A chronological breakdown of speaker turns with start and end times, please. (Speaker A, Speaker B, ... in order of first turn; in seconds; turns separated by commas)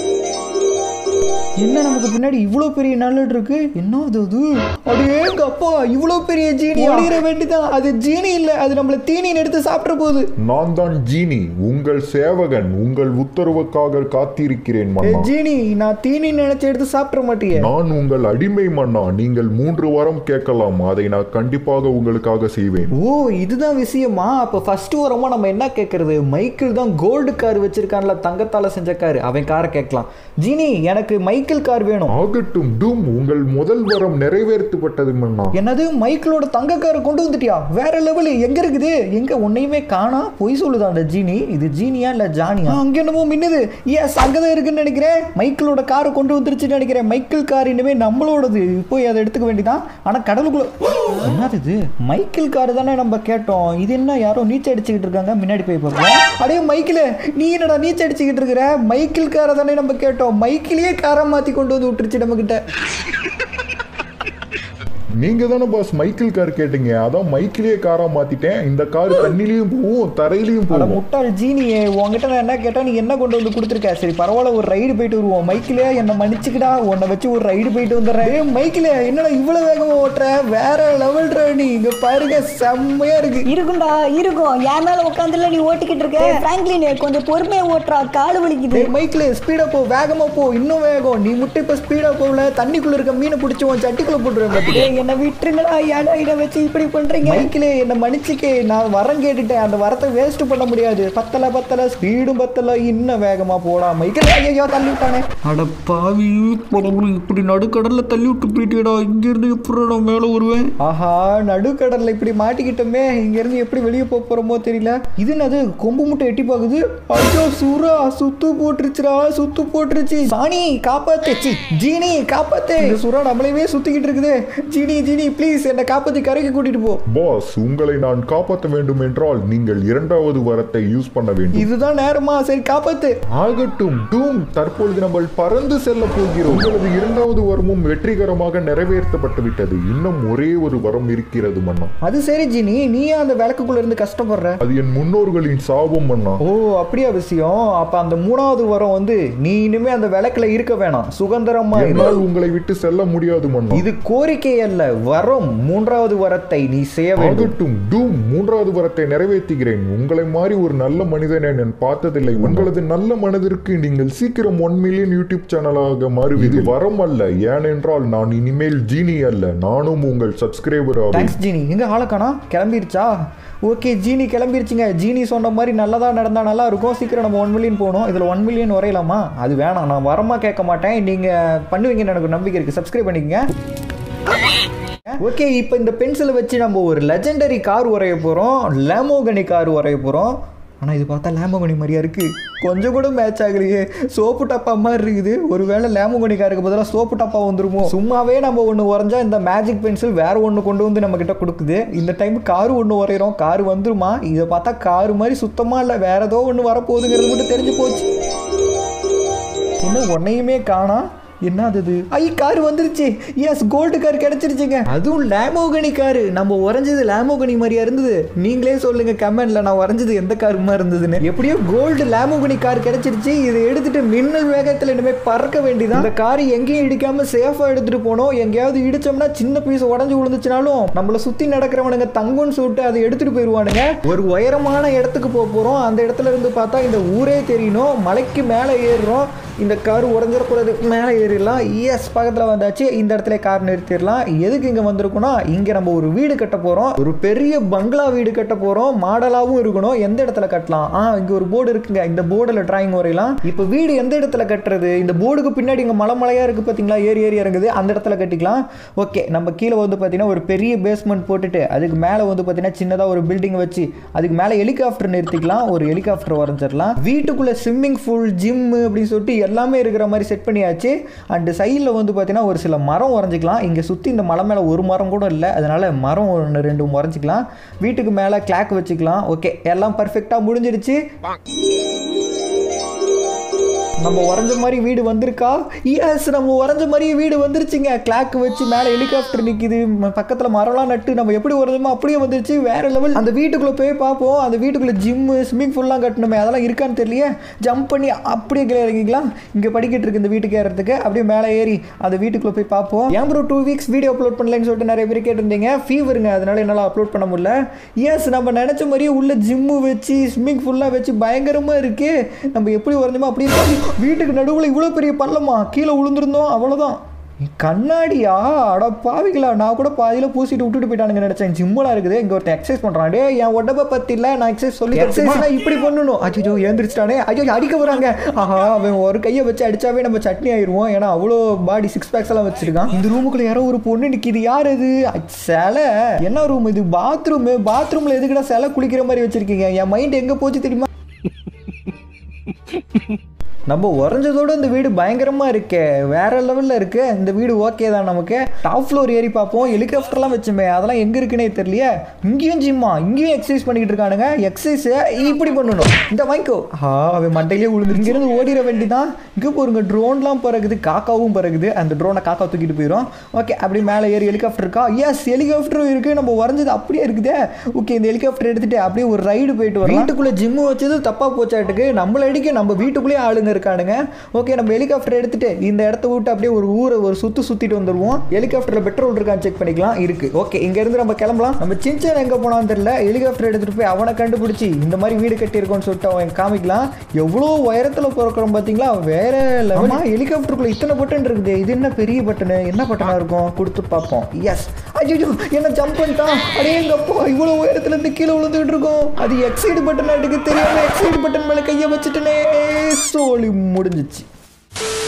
Speaker A: 1.6-10.3, Speaker B: 10.4-15.3, Speaker A: 15.0-17.7, Speaker B: 17.6-22.9, Speaker A: 22.9-32.1, Speaker B: 32.1-35.5, Speaker A: 35.5-62.6, Speaker B: 65.2-71.0, Speaker A: 70.7-83.5, Speaker C: 83.5-88.9, Speaker A: 88.7-94.9, Speaker C: 94.7-97.5, Speaker A: 97.2-109.1, Speaker A: 110.8-127.0, Speaker B: 127.1-131.7, Speaker A: 131.5-133.2, Speaker B: 133.3-141.9, Speaker A: 142.0-144.6, Speaker B: 144.6-146.4, Speaker A: 146.4-152.2, Speaker B: 151.7-153.8, Speaker A: 153.7-157.5, Speaker B: 157.2-171.4, Speaker A: 162.4-162.7, Speaker A: 166.4-166.7, Speaker A: 171.1-173.1, Speaker A: 173.7-183.4, Speaker A: 185.2-208.1, Speaker A: 209.8-281.0, Speaker A: 284.0-340.9, Speaker A: 343.7-404.2